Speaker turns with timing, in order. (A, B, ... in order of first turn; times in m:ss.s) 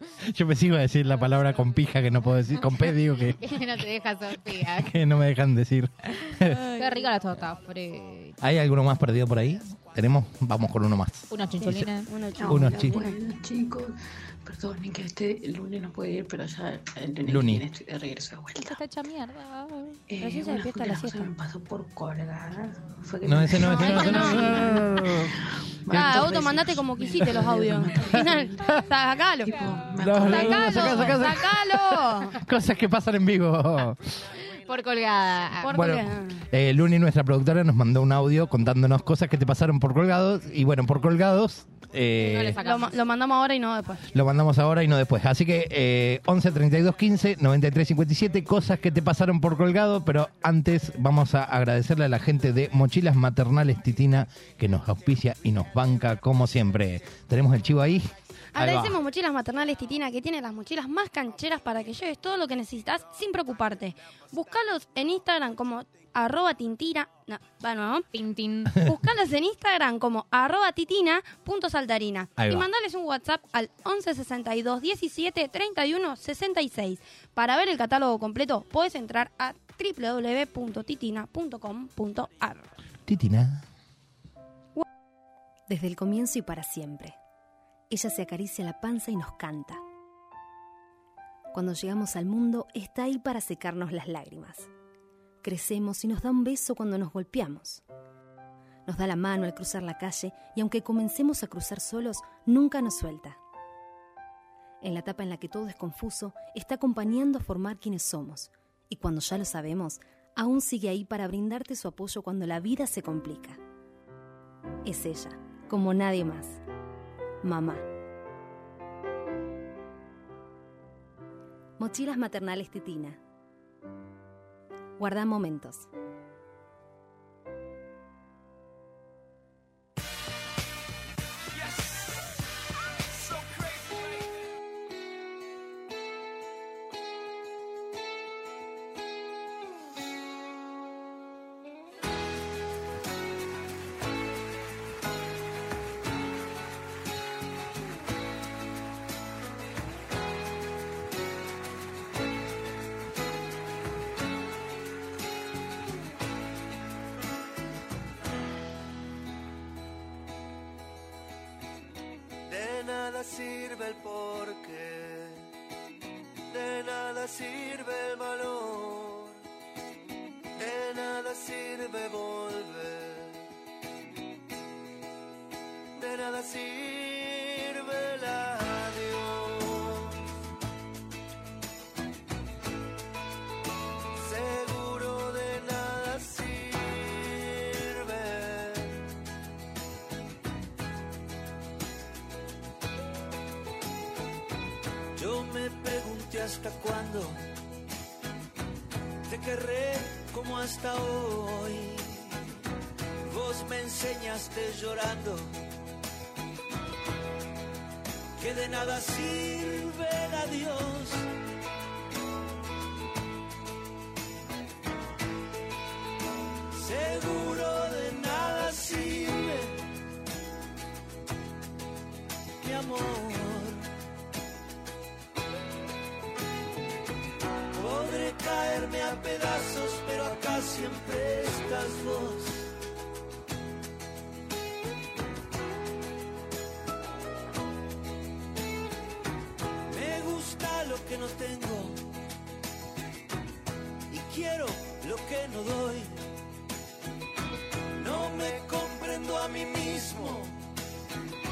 0:00.2-0:03.4 A
0:03.4-0:04.9 B
0:04.4-0:06.6 A
0:06.1-0:08.4 B
0:06.5-0:07.1 C
0:08.4-0:11.8 A
0:11.3-0:12.1 B
0:11.6-0:13.2 C
0:12.4-0:18.8 D
0:12.5-0:13.0 A
0:17.2-0:17.6 A
0:18.6-0:20.0 B
0:20.1-0:28.8 D
0:20.2-0:21.3 C
0:23.2-0:25.3 A
0:23.6-0:24.8 C
0:25.9-0:27.6 A
0:25.9-0:29.6 C
0:29.5-0:31.2 D
0:30.0-0:34.0 A
0:30.2-0:32.4 C
0:30.3-0:31.2 B
0:34.5-0:35.8 B
0:35.6-0:36.4 C
0:35.7-0:42.6 A
0:42.2-0:43.0 B
0:42.6-0:44.0 C
0:44.1-0:59.0 A
0:58.5-1:08.0 C
1:08.1-1:08.8 B
1:08.8-1:22.7 C
1:12.4-1:12.7 A
1:23.0-1:23.6 A
1:25.7-1:27.2 E
1:27.9-1:29.8 E
1:31.5-1:34.7 E
1:35.4-1:37.8 E
1:38.8-1:43.4 E
1:44.8-1:53.6 E
1:54.8-1:56.6 E
1:57.4-1:57.8 E
2:01.8-2:03.2 E
2:05.0-2:05.9 E
2:42.5-2:45.4 F
2:46.5-2:49.4 F
2:50.6-2:53.4 F
2:56.0-3:00.1 F
3:04.1-3:09.0 F
3:15.1-3:17.4 F
3:19.2-3:22.3 F
3:23.2-3:25.5 F
3:28.4-3:31.3 F
3:36.7-3:39.8 F
3:42.6-3:43.9 F
3:47.7-3:52.7 F
3:59.9-4:02.1 F
4:04.1-4:06.2 F
4:08.0-4:10.6 F